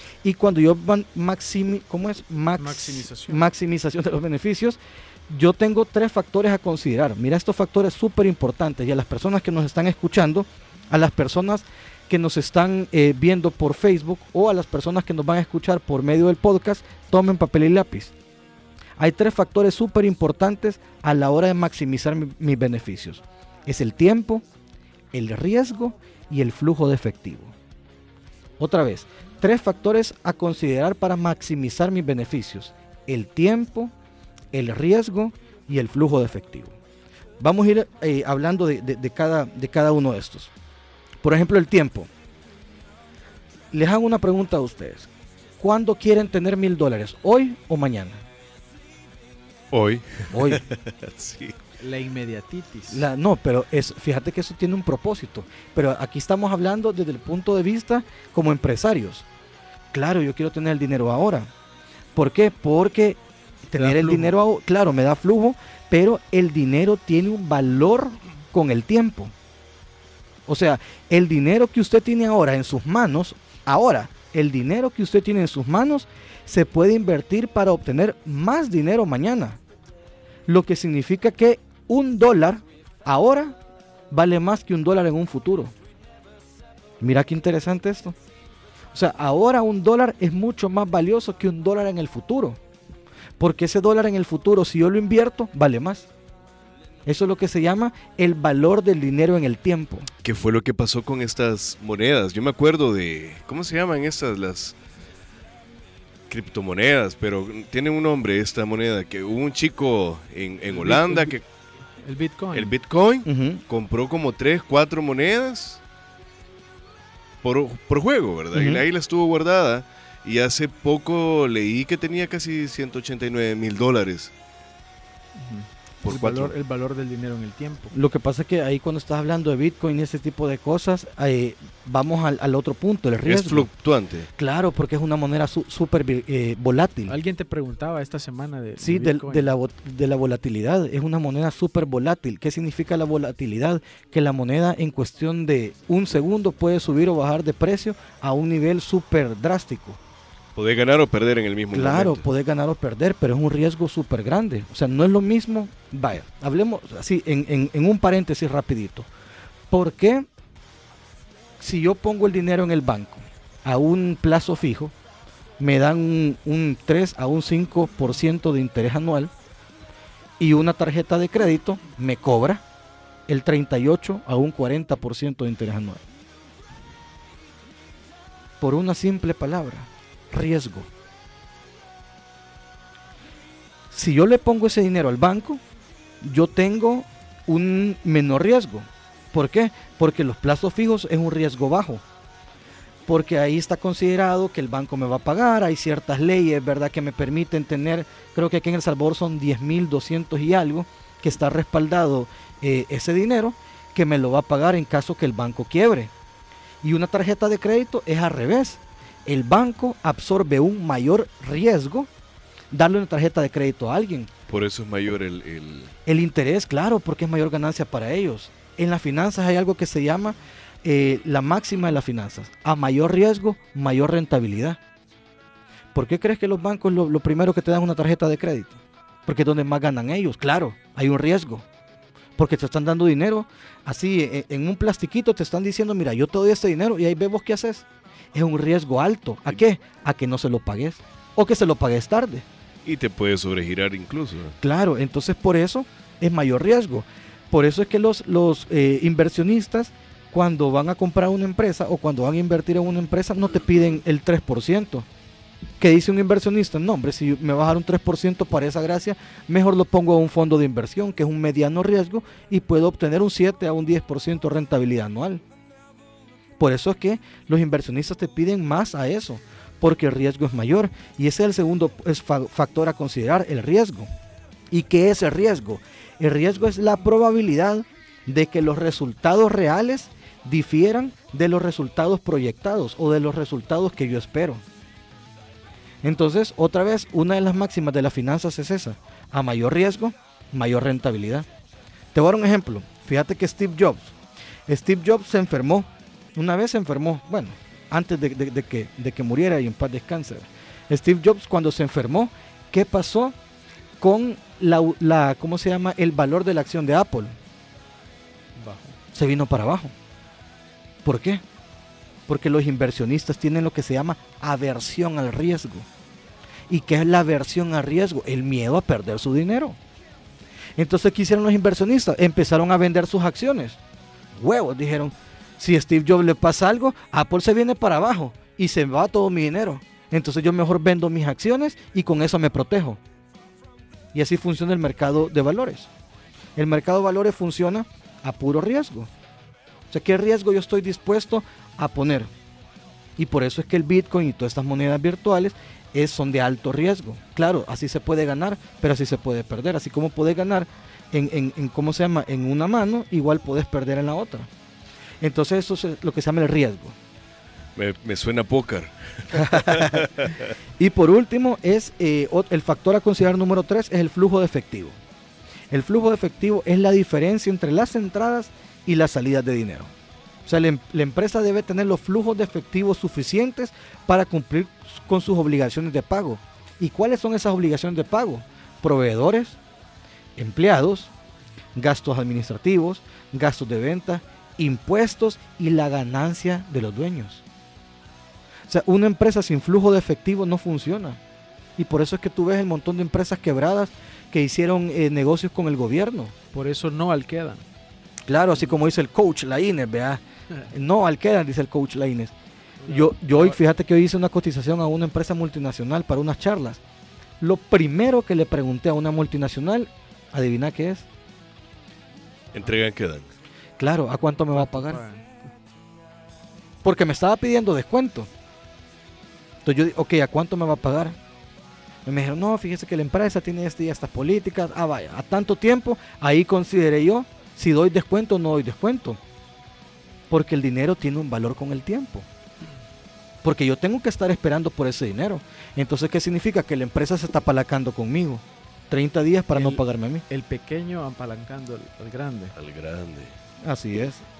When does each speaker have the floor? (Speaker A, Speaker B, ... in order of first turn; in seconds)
Speaker A: 0.2-18.1, 19.0-24.4, 25.1-27.6, 28.6-33.9, 34.5-36.8, 37.4-40.5, 41.2-42.1, 43.7-48.2, 50.3-50.6, 52.9-59.2, 59.9-61.5, 62.1-69.3, 70.5-79.6, 80.5-83.6, 84.1-85.7, 87.0-88.2, 88.9-92.6, 93.4-96.1, 97.1-100.1, 113.2-113.6, 118.5-118.8, 127.9-133.7, 134.4-137.1, 138.8-150.0, 151.7-159.1, 159.7-160.3, 161.6-164.9, 165.6-169.3, 170.4-172.6, 173.3-176.0, 178.6-180.9, 183.9-185.6, 186.2-192.0, 193.1-206.1, 206.8-212.1, 212.7-214.3, 216.1-224.8, 225.9-231.6, 232.4-242.5, 244.6-255.1, 255.8-265.4, 266.6-274.1, 274.7-284.6, 286.0-291.5, 292.1-294.1, 294.7-303.4, 304.0-307.4, 309.1-309.9, 311.0-311.4, 312.3-315.9, 316.7-319.8, 320.8-323.8, 324.4-333.0, 334.1-335.9, 336.6-339.1, 339.9-342.3, 343.2-354.5, 355.2-357.0, 359.3-360.1, 360.8-365.0, 365.7-369.9, 370.4-379.6, 380.4-381.1, 381.8-387.4, 388.7-391.2, 391.8-396.3, 398.3-402.3, 402.9-406.8, 407.4-411.1, 413.8-415.0, 416.8-418.3, 419.6-421.2, 422.1-429.2, 430.3-432.3, 433.4-440.2, 443.6-444.3
Speaker B: 2.6-3.5, 51.8-53.1, 63.8-64.3, 110.7-111.4, 112.0-112.8, 125.4-127.9, 137.1-139.5, 308.6-309.0, 396.5-397.6, 402.8-403.6, 414.6-415.3, 439.5-442.6
Speaker C: 49.7-51.6, 100.2-104.7, 106.3-111.4, 112.5-115.8, 117.4-124.3, 126.0-126.5, 133.2-134.3, 150.6-152.2, 214.5-215.9, 242.9-244.6, 357.8-360.5, 412.5-413.3, 442.6-443.3